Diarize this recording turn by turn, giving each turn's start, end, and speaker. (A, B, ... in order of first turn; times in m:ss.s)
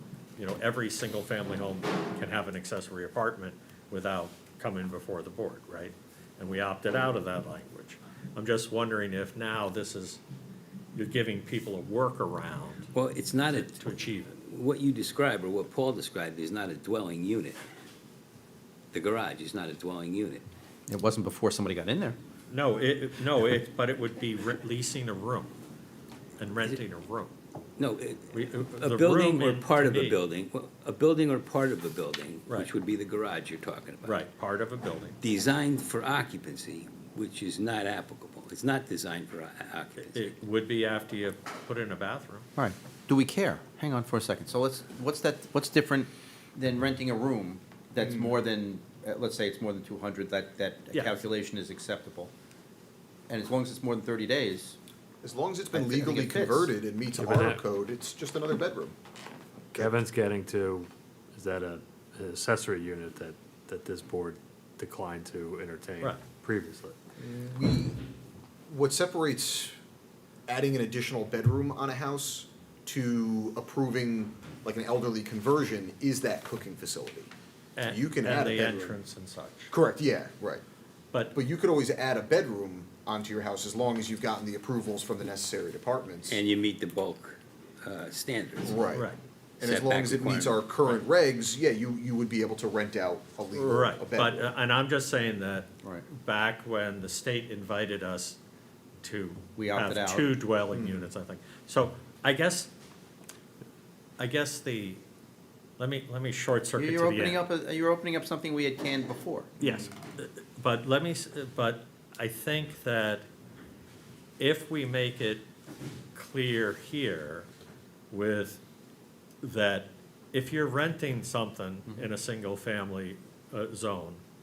0:00.4-0:10.2 A
0:10.9-0:12.9 A
0:12.9-0:17.6 B
0:13.4-0:14.4 A
0:18.9-0:20.4 B
0:20.9-0:22.2 C
0:22.5-0:25.5 A
0:26.4-0:27.3 A
0:27.8-0:34.2 B
0:28.3-0:30.2 A
0:34.0-0:35.2 A
0:35.2-0:40.3 B
0:40.0-0:42.5 A
0:42.6-0:52.3 C
0:48.0-0:48.3 D
0:50.9-0:51.2 A
0:53.3-0:54.8 C
0:55.2-0:58.9 D
0:55.7-0:56.7 C
0:57.2-0:57.6 E
0:59.7-1:07.0 E
1:07.2-1:08.0 D
1:08.7-1:09.7 D
1:10.5-1:17.3 D
1:17.8-1:19.7 A
1:17.8-1:19.0 D
1:19.7-1:20.6 D
1:21.3-1:26.4 D
1:26.2-1:28.8 B
1:28.6-1:29.1 D
1:28.9-1:29.2 A
1:29.6-1:30.7 B
1:29.6-1:34.5 D
1:33.6-1:38.4 A
1:39.0-1:42.7 A
1:39.6-1:40.3 C
1:40.7-1:41.1 D
1:44.2-1:45.0 A
1:45.8-1:47.4 A
1:46.8-1:49.6 C
1:49.6-1:53.3 A
1:54.4-1:55.4 A
1:56.1-1:57.5 A
1:58.1-1:58.6 A
1:59.4-2:04.2 A